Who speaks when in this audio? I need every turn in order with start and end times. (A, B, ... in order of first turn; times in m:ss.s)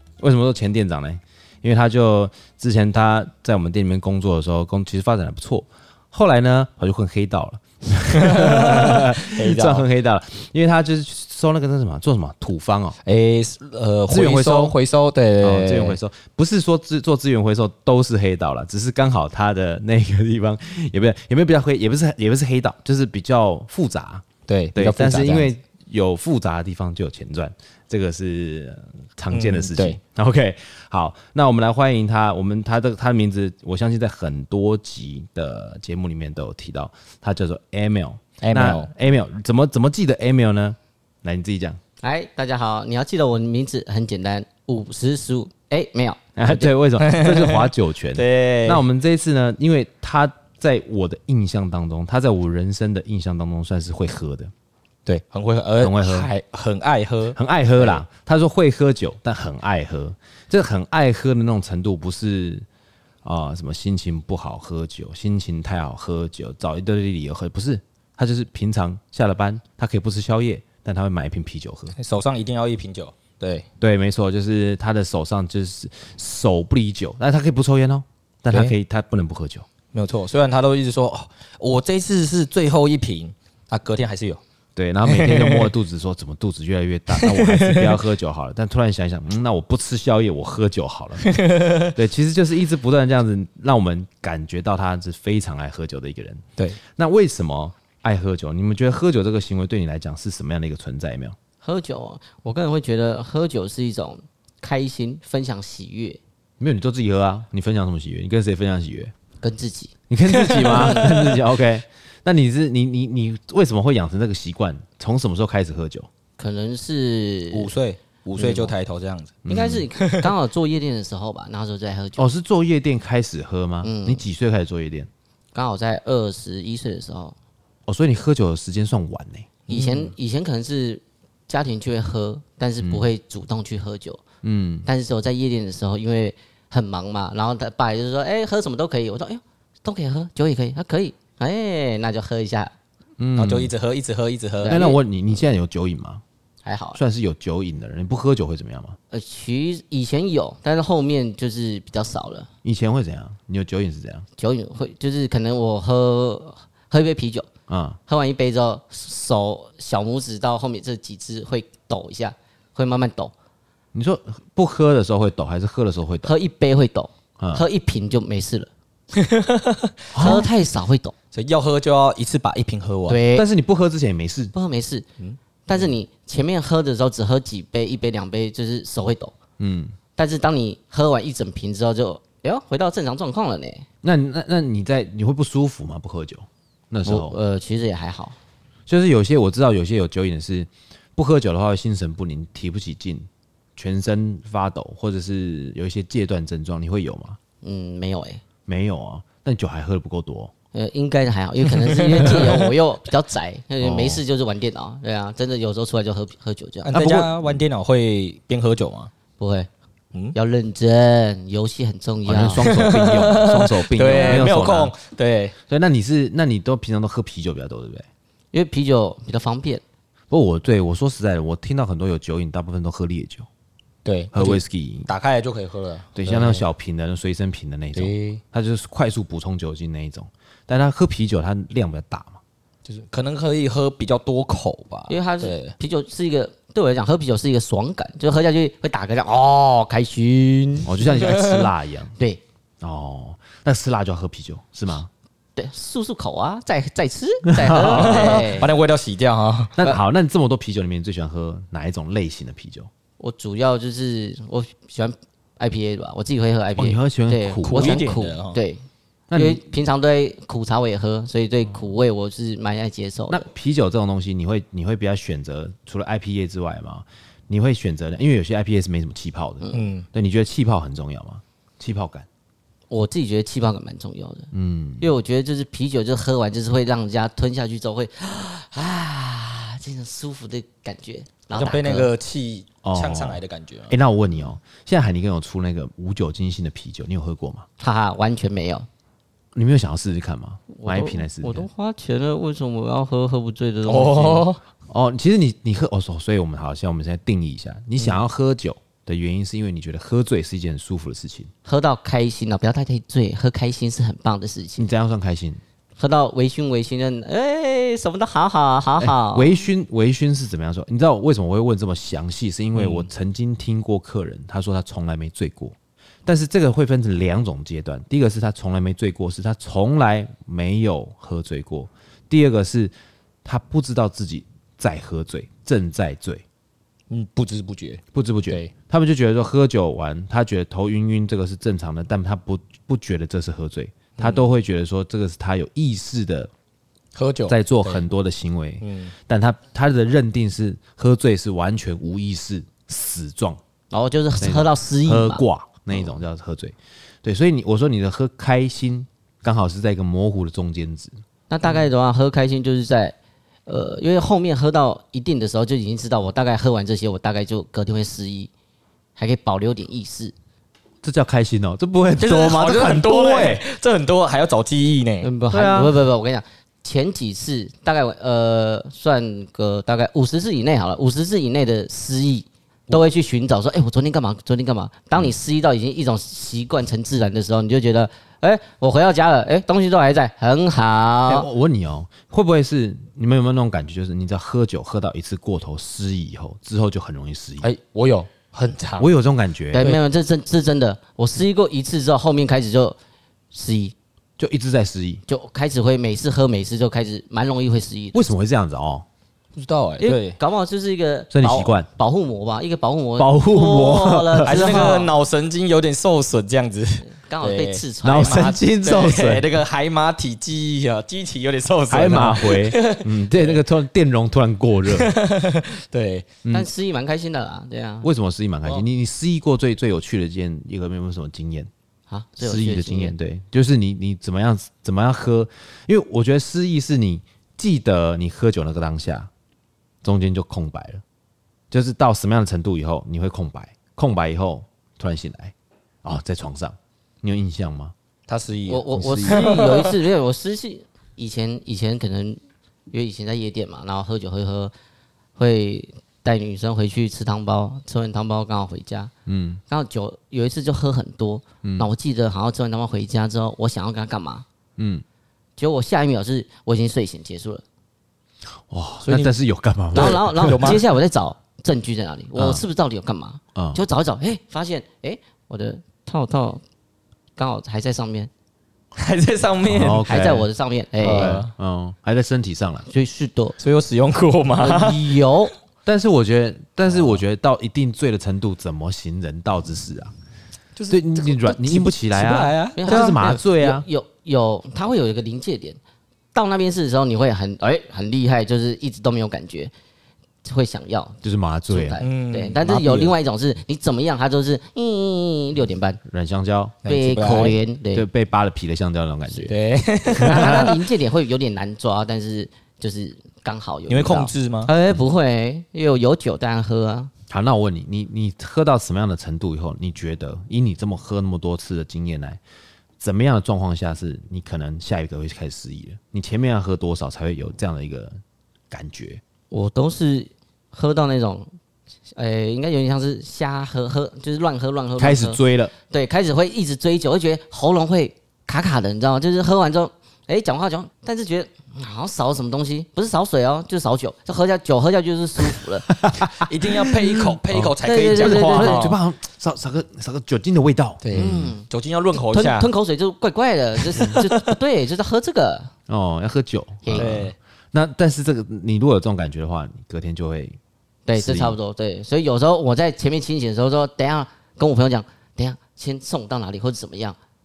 0:00.2-0:13.0 A
0:08.2-0:09.9 B
0:13.0-0:16.0 B
0:14.1-0:14.8 A
0:15.4-0:41.8 A
0:24.5-0:25.5 B
0:29.3-0:30.0 B
0:38.4-0:38.9 B
0:42.0-0:46.7 C
0:46.4-0:54.5 A
0:47.0-0:48.8 B
0:55.0-0:58.0 B
0:55.8-0:56.3 A
0:57.3-1:02.6 A
1:03.2-1:11.9 A
1:12.0-1:13.6 B
1:13.8-1:19.6 A
1:19.9-1:24.4 B
1:24.8-1:41.4 A
1:25.0-1:25.7 B
1:27.1-1:28.0 B
1:31.2-1:31.9 B
1:41.6-1:46.2 C
1:46.6-1:49.1 A
1:49.4-1:49.9 C
1:50.1-1:56.1 A
1:50.3-1:51.4 B
1:56.4-1:57.7 C
1:57.5-1:59.4 B
1:58.4-1:58.7 C
1:59.4-1:59.9 A
1:59.5-2:02.2 C
2:00.0-2:00.3 B
2:02.2-2:05.1 A
2:03.8-2:04.2 C
2:05.5-2:07.4 C
2:07.9-2:09.5 A
2:09.7-2:10.1 B
2:09.7-2:14.2 C
2:14.4-2:14.8 A
2:14.8-2:22.7 C
2:23.2-2:23.7 A
2:23.3-2:24.8 B
2:24.6-2:25.0 C
2:24.7-2:26.2 A
2:26.6-2:27.0 C
2:26.9-2:29.0 A
2:29.1-2:32.5 C
2:32.6-2:34.2 A
2:34.4-2:37.5 C
2:37.7-2:38.0 A
2:38.1-2:43.3 C
2:43.9-2:46.3 A
2:46.2-2:48.7 C
2:47.4-2:47.6 A
2:49.2-2:50.5 B
2:50.1-2:50.5 A
2:50.2-2:51.1 C
2:51.3-2:53.2 B
2:53.1-2:53.4 C
2:53.3-2:54.5 A
2:54.5-2:55.1 C
2:55.6-2:59.4 C
2:59.6-2:59.9 A
3:00.2-3:03.8 C
3:04.0-3:07.4 A
3:07.0-3:08.4 C
3:08.9-3:17.4 A
3:17.6-3:18.4 C
3:18.6-3:20.5 A
3:20.7-3:26.9 C
3:21.8-3:22.6 B
3:23.8-3:24.2 A
3:26.8-3:29.1 B
3:26.9-3:27.5 A
3:29.4-3:29.7 C
3:30.3-3:32.7 C
3:32.2-3:34.9 A
3:32.6-3:35.6 B
3:34.0-3:34.5 C
3:35.7-3:38.0 A
3:38.5-3:39.8 C
3:40.3-3:43.5 A
3:44.0-3:46.6 B
3:44.3-3:45.1 A
3:46.1-3:52.4 A
3:47.9-3:48.4 B
3:52.8-3:55.8 B
3:55.1-4:01.2 C
4:00.8-4:02.1 A
4:01.2-4:01.6 B
4:02.8-4:05.1 A
4:05.6-4:08.7 C
4:07.5-4:08.5 A
4:07.9-4:09.8 B
4:09.8-4:12.9 A
4:13.2-4:18.8 C
4:16.8-4:18.1 A
4:17.6-4:18.6 B
4:19.3-4:19.6 A
4:19.3-4:23.4 C
4:23.3-4:32.3 A
4:29.6-4:29.8 C
4:29.7-4:30.1 B
4:32.9-4:34.5 C
4:34.5-4:35.1 A
4:35.0-4:42.1 C
4:41.5-4:43.9 B
4:42.8-4:47.6 A
4:47.8-4:48.9 C
4:49.5-4:51.7 A
4:50.7-4:54.5 C
4:53.8-4:54.6 B
4:54.9-5:01.5 A
5:01.6-5:04.9 C
5:04.8-5:05.6 A
5:06.0-5:09.5 C
5:09.0-5:15.7 A
5:12.7-5:13.1 B
5:16.2-5:22.9 A
5:23.4-5:26.4 A
5:27.1-5:28.7 B
5:28.1-5:36.5 A
5:34.2-5:34.4 B
5:37.1-5:38.1 B
5:37.5-5:43.6 A
5:38.8-5:39.1 B
5:43.9-5:46.1 C
5:44.4-5:51.1 A
5:51.5-5:53.1 C
5:53.7-5:58.5 C
5:59.2-6:00.3 C
6:01.0-6:03.6 A
6:02.2-6:05.3 B
6:05.2-6:21.5 C
6:05.5-6:06.0 A
6:21.3-6:27.7 A
6:27.6-6:29.1 B
6:29.0-6:29.9 A
6:29.7-6:33.0 C
6:33.5-6:33.9 C
6:34.4-6:35.2 A
6:35.3-6:38.3 C
6:38.1-6:39.0 A
6:39.6-6:40.4 B
6:40.0-6:45.1 C
6:41.3-6:41.9 A
6:43.2-6:45.1 A
6:44.4-6:53.6 B
6:47.1-6:48.5 C
6:48.0-6:49.4 A
6:51.9-6:55.1 A
6:54.9-6:56.3 B
6:56.4-6:56.7 A
6:56.5-6:58.1 C
6:58.0-7:01.7 A
7:02.1-7:03.1 C
7:02.4-7:09.3 A
7:10.0-7:11.0 A
7:11.7-7:15.5 A
7:16.0-7:17.9 A
7:18.3-7:20.0 B
7:18.7-7:22.4 C
7:22.9-7:24.7 C
7:25.4-7:29.1 C
7:29.2-7:29.6 A
7:29.7-7:34.4 C
7:31.6-7:31.9 A
7:34.8-7:35.0 A
7:35.6-7:37.6 C
7:38.7-7:40.8 A
7:39.0-7:39.3 C
7:39.9-7:46.6 C
7:39.9-7:40.8 B
7:42.4-7:42.6 A
7:43.5-7:43.8 A
7:47.4-7:48.3 C
7:48.9-7:50.3 B
7:49.6-7:50.5 A
7:50.0-7:51.4 C
7:51.0-7:51.5 B
7:51.1-7:52.8 A
7:52.9-7:53.6 C
7:53.6-7:55.2 B
7:54.6-7:55.5 C
7:55.8-8:00.1 A
8:00.8-8:03.2 B
8:00.9-8:03.8 A
8:02.8-8:05.8 C
8:06.3-8:09.7 C
8:10.4-8:16.0 C
8:11.2-8:12.0 A
8:12.0-8:13.1 B
8:16.0-8:16.8 A
8:16.8-8:17.6 B
8:16.8-8:18.0 C
8:17.9-8:19.5 A
8:19.3-8:20.9 B
8:20.1-8:27.1 C
8:20.3-8:20.7 A
8:23.9-8:24.7 B
8:27.3-8:32.4 A
8:33.0-8:38.2 A
8:38.7-8:39.2 A
8:39.5-8:41.5 C
8:42.1-8:55.9 C
8:45.0-8:45.7 A
8:55.5-9:01.5 A
8:56.4-8:59.0 B
8:57.8-8:58.9 C
9:01.0-9:02.7 B
9:01.1-9:05.7 C
9:03.9-9:04.6 B
9:05.9-9:10.6 A
9:06.8-9:07.2 C
9:06.9-9:07.4 B
9:11.0-9:17.2 C
9:11.1-9:11.6 A